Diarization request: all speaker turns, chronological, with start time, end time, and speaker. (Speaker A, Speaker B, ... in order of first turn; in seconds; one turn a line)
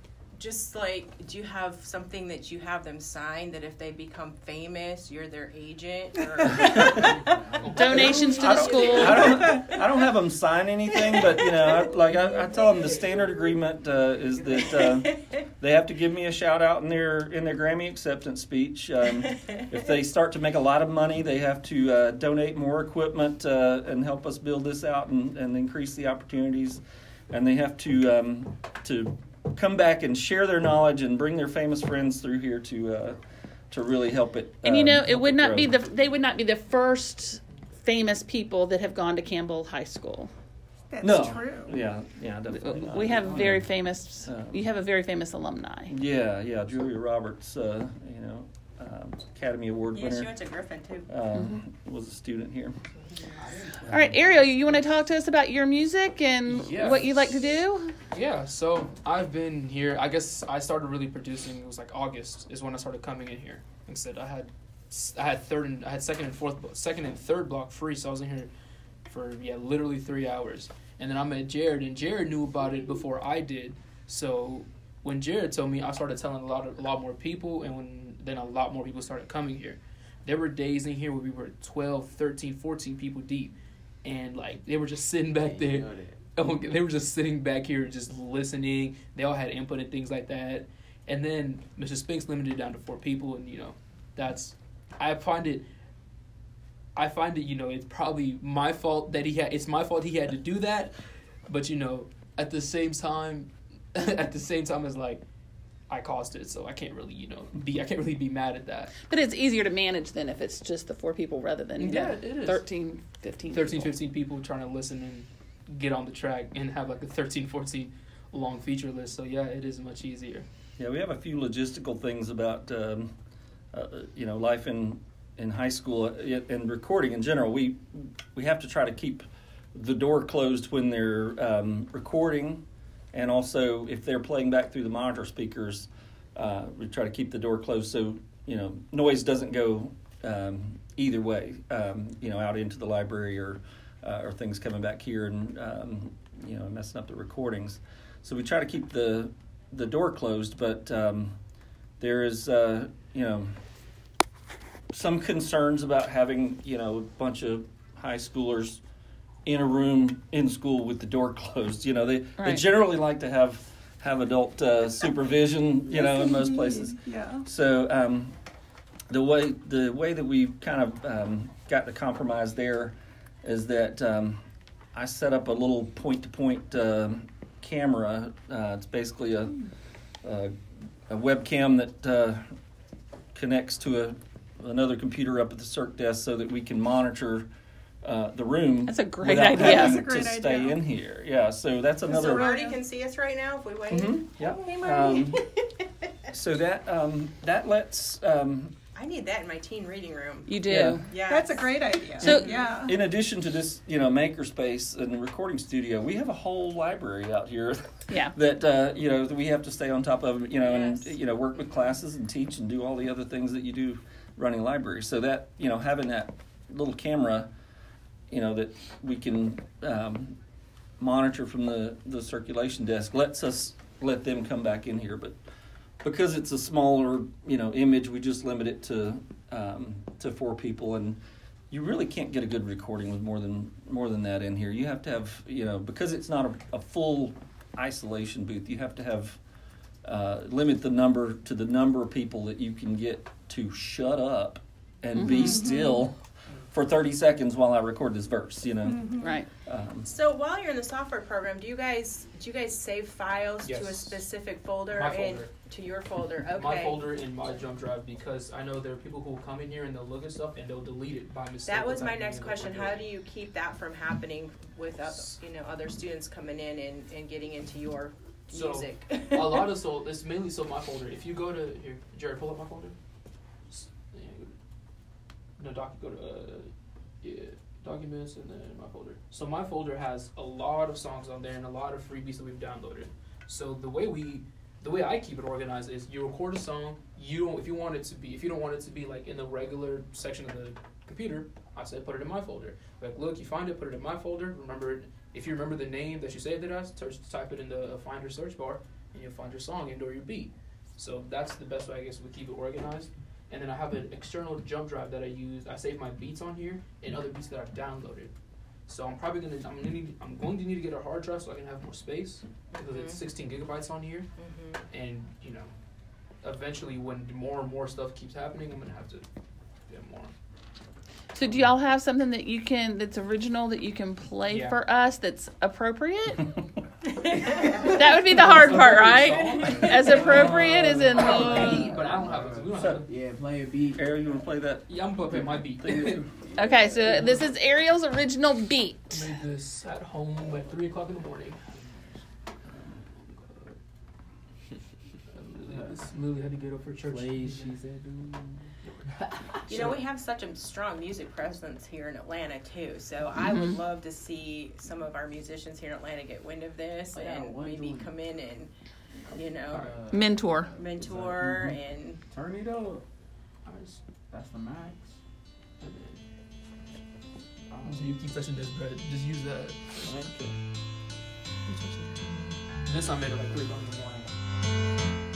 Speaker A: 0.3-9.9
Speaker B: 6.4-7.1
Speaker C: 7.0-7.7
Speaker D: 7.5-8.1
Speaker E: 7.7-9.5
Speaker B: 7.9-35.7
Speaker A: 11.0-11.9
Speaker A: 14.7-15.3
Speaker A: 19.3-19.6
Speaker E: 34.6-40.3
Speaker F: 40.9-41.8
Speaker B: 41.0-43.7
Speaker E: 42.5-45.9
Speaker B: 44.2-44.6
Speaker B: 45.9-50.3
Speaker A: 49.9-51.1
Speaker B: 51.1-52.8
Speaker E: 51.3-51.6
Speaker C: 53.4-53.9
Speaker B: 53.8-54.2
Speaker E: 53.9-57.9
Speaker D: 56.5-57.3
Speaker D: 58.1-68.5
Speaker D: 69.0-83.5
Speaker D: 84.0-95.7
Speaker C: 85.2-86.3
Speaker D: 96.9-100.9
Speaker D: 101.5-105.2
Speaker D: 105.9-108.9
Speaker E: 109.1-114.0
Speaker D: 111.8-112.7
Speaker D: 113.5-120.5
Speaker B: 120.8-123.1
Speaker B: 123.7-151.4
Speaker B: 152.0-153.6
Speaker B: 154.9-158.8
Speaker B: 159.4-168.3
Speaker E: 162.4-162.6
Speaker F: 165.9-167.4
Speaker B: 169.1-174.4
Speaker B: 174.9-179.6
Speaker B: 180.2-180.5
Speaker B: 181.1-182.5
Speaker B: 183.3-187.5
Speaker B: 188.0-192.5
Speaker E: 188.9-190.1
Speaker F: 189.4-190.8
Speaker F: 192.1-192.8
Speaker A: 192.1-195.9
Speaker B: 193.9-195.4
Speaker B: 196.3-198.7
Speaker A: 198.9-200.5
Speaker E: 200.5-201.1
Speaker B: 200.7-201.1
Speaker A: 201.1-202.8
Speaker F: 201.3-203.0
Speaker B: 202.2-217.5
Speaker E: 208.1-208.3
Speaker A: 210.6-211.1
Speaker B: 218.3-220.4
Speaker B: 221.0-225.4
Speaker B: 226.0-231.2
Speaker B: 231.7-239.4
Speaker B: 240.0-250.1
Speaker E: 245.1-245.7
Speaker F: 245.3-246.0
Speaker F: 248.9-249.3
Speaker E: 249.2-249.5
Speaker A: 250.1-257.1
Speaker D: 253.6-254.2
Speaker D: 254.9-255.5
Speaker D: 256.5-263.0
Speaker A: 261.6-269.7
Speaker D: 268.5-272.9
Speaker D: 273.7-274.5
Speaker D: 275.6-276.7
Speaker D: 277.2-308.3
Speaker D: 308.9-314.3
Speaker A: 312.9-313.2
Speaker A: 314.4-314.8
Speaker D: 314.9-315.7
Speaker D: 316.4-319.2
Speaker D: 319.9-320.3
Speaker E: 321.3-326.5
Speaker D: 324.5-324.8
Speaker A: 327.2-327.9
Speaker D: 327.6-333.1
Speaker E: 327.9-331.9
Speaker C: 328.7-334.1
Speaker A: 329.6-329.9
Speaker B: 332.7-333.1
Speaker B: 333.9-334.9
Speaker D: 334.9-336.3
Speaker C: 335.1-337.5
Speaker E: 336.6-339.4
Speaker D: 339.1-342.1
Speaker D: 343.0-343.7
Speaker D: 345.3-347.8
Speaker C: 345.6-346.1
Speaker C: 347.0-348.7
Speaker D: 348.8-350.0
Speaker A: 349.7-358.7
Speaker E: 353.4-353.8
Speaker C: 357.1-358.1
Speaker A: 359.3-359.9
Speaker C: 359.7-363.0
Speaker D: 359.7-359.9
Speaker E: 360.1-360.7
Speaker A: 360.8-362.2
Speaker D: 363.6-364.0
Speaker C: 364.3-365.2
Speaker D: 365.8-366.2
Speaker C: 367.7-368.2
Speaker D: 367.8-370.3
Speaker C: 370.0-370.6
Speaker D: 371.7-374.3